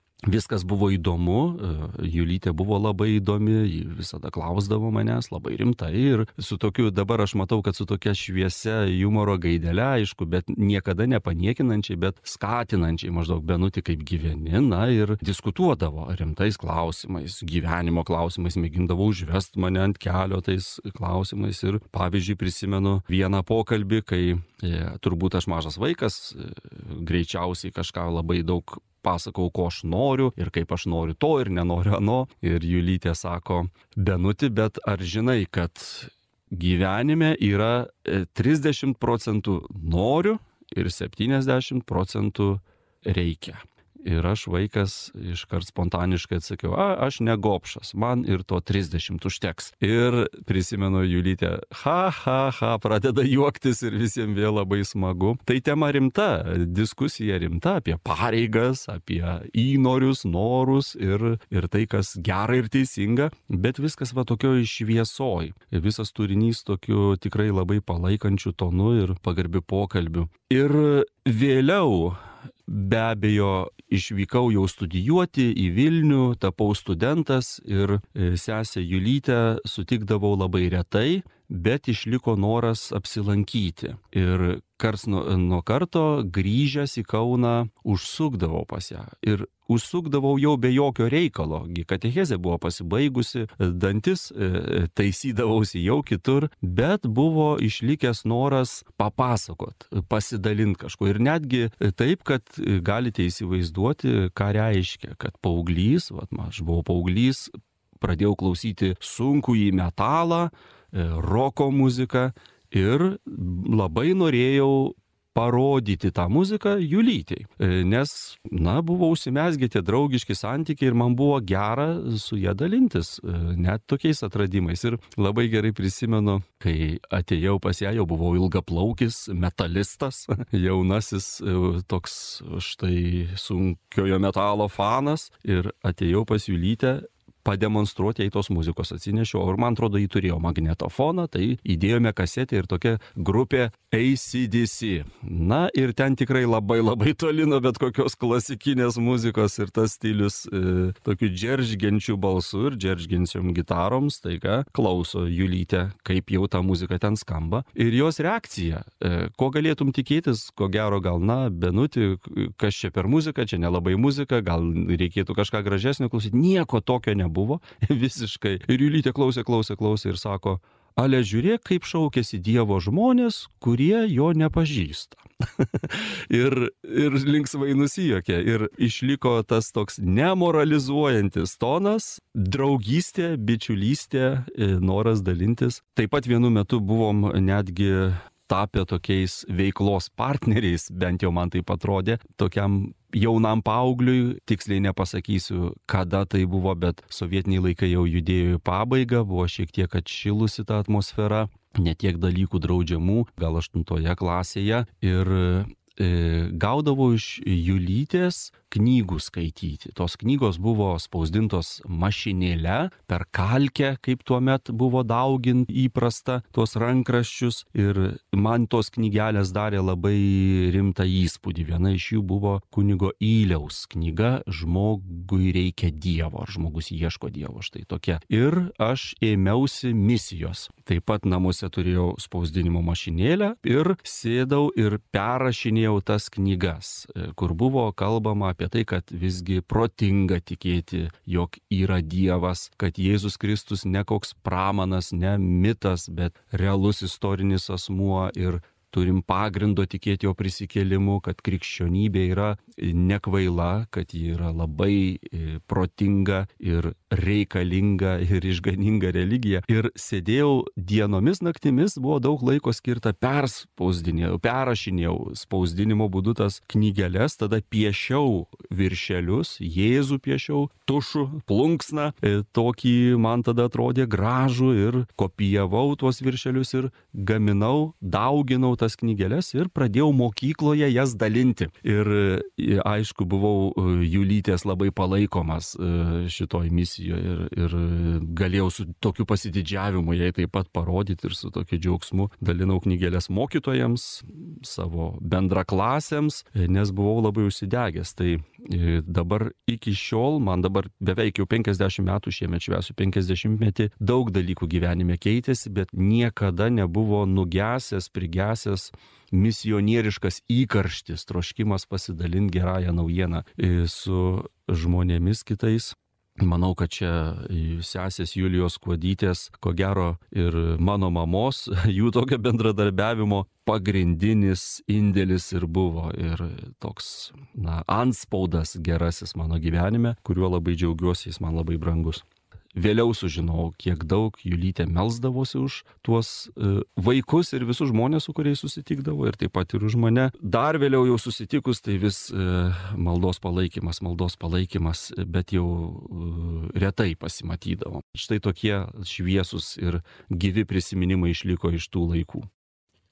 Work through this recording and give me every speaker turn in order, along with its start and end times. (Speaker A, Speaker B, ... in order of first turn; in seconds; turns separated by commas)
Speaker A: 0.2-352.5